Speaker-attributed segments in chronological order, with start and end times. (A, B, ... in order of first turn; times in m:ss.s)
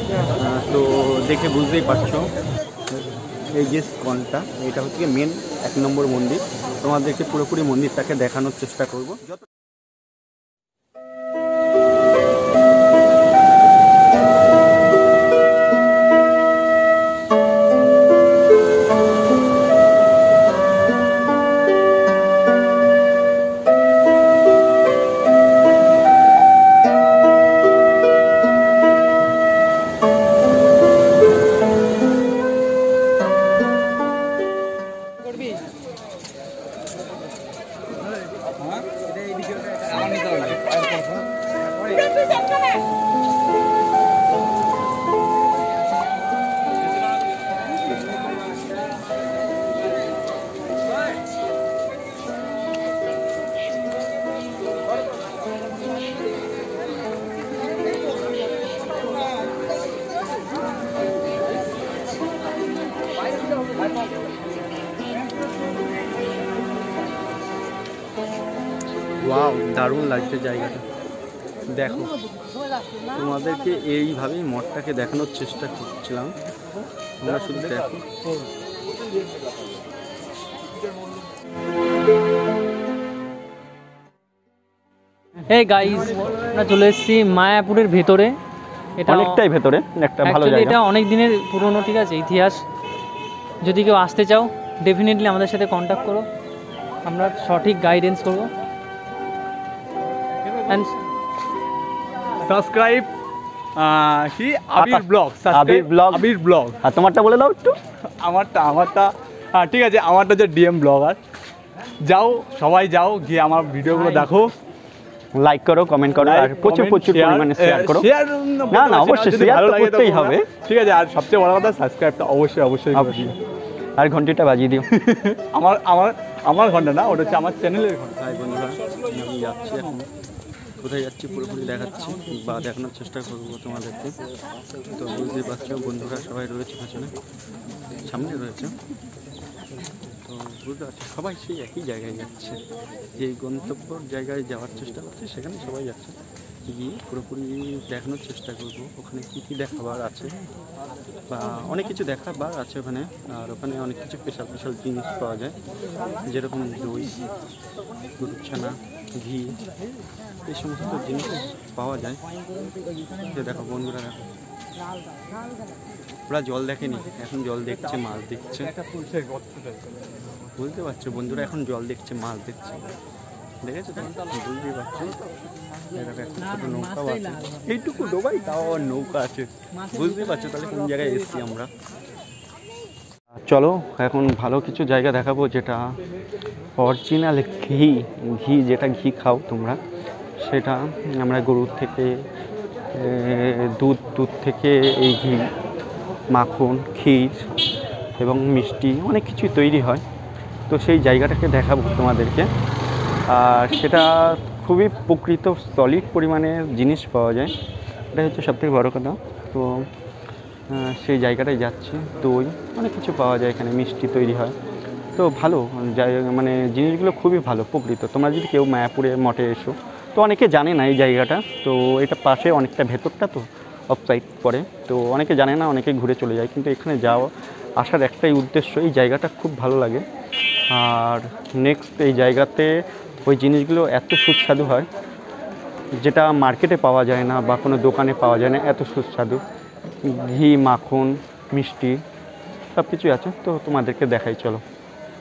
0:00.4-0:02.3 A
0:02.9-0:09.3 A
0:39.9-0:40.6 B
1:09.2-1:10.8 A
1:11.7-1:12.1 A
1:13.1-1:16.4 A
1:17.2-1:18.0 A
1:25.5-1:28.4 C
1:29.0-1:29.4 C
1:29.1-1:30.8 A
1:30.2-1:32.6 C
1:33.6-1:36.3 C
1:37.0-1:38.5 C
1:40.7-1:41.0 C
1:42.4-1:43.1 B
1:43.8-1:46.8 B
1:44.8-1:46.3 A
1:46.8-1:47.8 A
1:48.1-1:51.2 B
1:52.0-1:54.6 B
1:55.4-1:58.1 A
1:56.2-2:03.4 B
1:58.7-2:00.5 A
2:02.9-2:03.3 A
2:04.0-2:04.9 A
2:04.9-2:08.2 B
2:08.2-2:10.1 A
2:10.8-2:14.2 A
2:14.9-2:17.1 A
2:18.0-2:18.8 A
2:20.1-2:22.6 A
2:23.2-2:26.2 A
2:26.7-2:30.3 A
2:31.3-2:35.6 A
2:36.3-2:37.2 A
2:38.2-2:39.6 A
2:40.4-2:42.2 A
2:43.2-2:44.3 A
2:46.3-2:48.7 A
2:49.0-2:49.6 B
2:50.5-2:52.9 A
2:53.6-2:55.2 A
2:55.9-3:01.7 A
3:03.5-3:06.0 A
3:06.8-3:09.8 A
3:10.4-3:12.2 A
3:12.9-3:15.5 A
3:16.3-3:17.5 A
3:18.2-3:20.0 A
3:20.7-3:22.5 A
3:23.3-3:27.5 A
3:28.1-3:29.9 A
3:30.7-3:34.6 A
3:35.2-3:50.0 A
3:50.7-3:54.9 A
3:56.0-3:59.4 A
4:00.0-4:02.0 A
4:02.8-4:04.6 A